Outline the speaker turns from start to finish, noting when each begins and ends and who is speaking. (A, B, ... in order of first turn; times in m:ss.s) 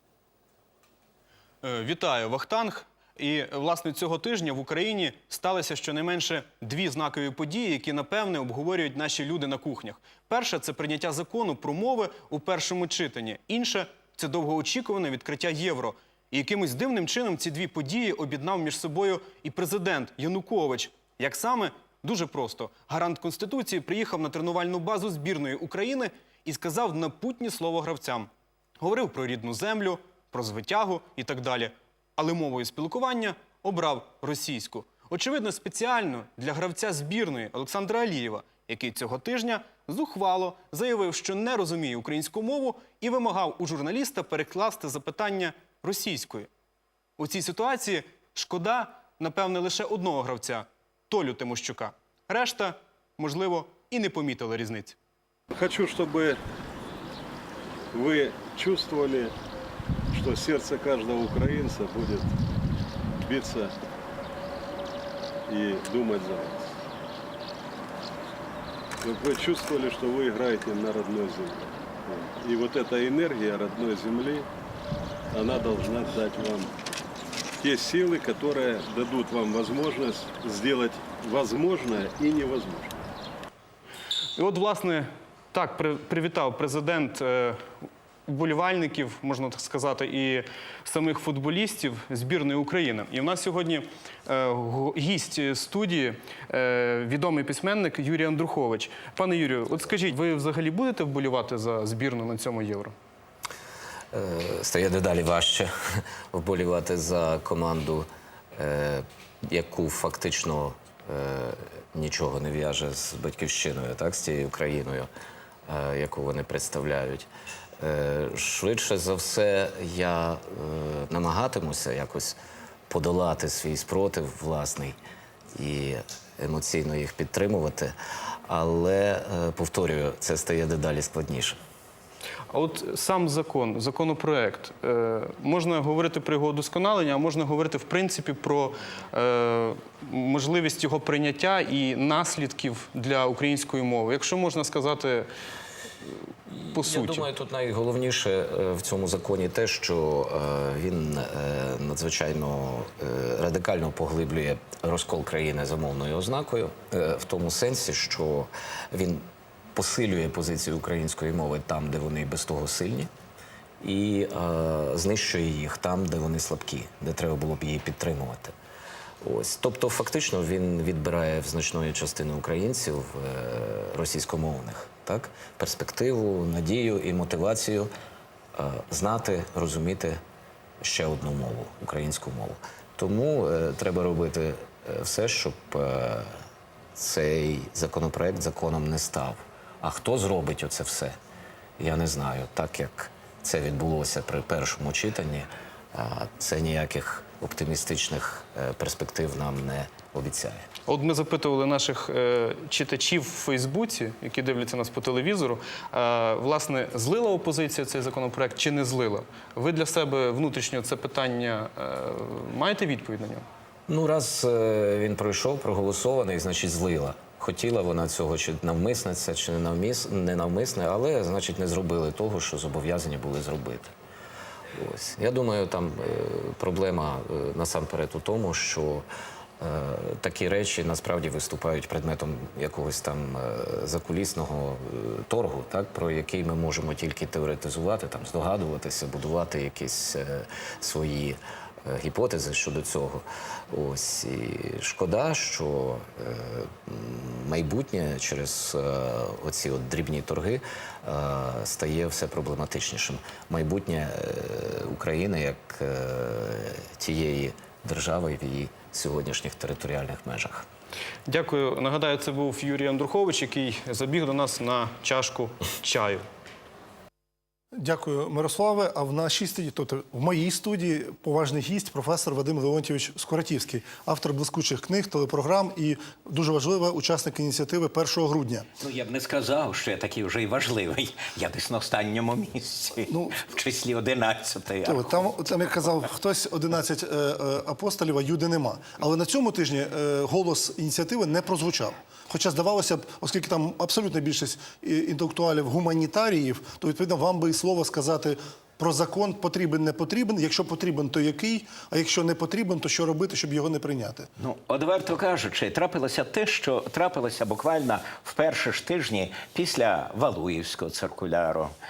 0:01.6-0:46.5 A
0:47.2-0:55.0 A
0:55.5-0:56.4 B
0:57.9-0:59.3 B
1:00.1-1:02.4 B
1:03.2-1:03.7 B
1:05.5-1:06.8 B
1:09.0-1:14.5 B
1:15.3-1:16.7 B
1:17.6-1:22.9 B
1:24.4-1:27.7 A
1:28.3-1:42.9 A
1:44.1-1:55.1 C
1:55.7-1:57.3 C
1:57.8-2:05.0 C
2:05.5-2:07.9 C
2:08.4-2:11.6 C
2:12.5-2:25.3 A
2:26.5-2:43.1 C
2:26.7-2:27.3 A
2:43.8-2:48.5 C
2:49.2-2:57.9 C
2:58.5-3:00.2 C
3:00.8-3:06.4 C
3:06.9-3:11.2 C
3:11.8-3:20.7 C
3:20.9-3:33.4 A
3:33.9-3:43.9 C
3:44.7-3:49.1 C
3:49.6-4:20.6 C
4:21.3-4:26.2 A
4:27.8-4:38.7 D
4:38.8-4:45.3 E
4:43.1-4:43.5 D
4:44.8-5:04.3 D
5:04.4-5:11.7 E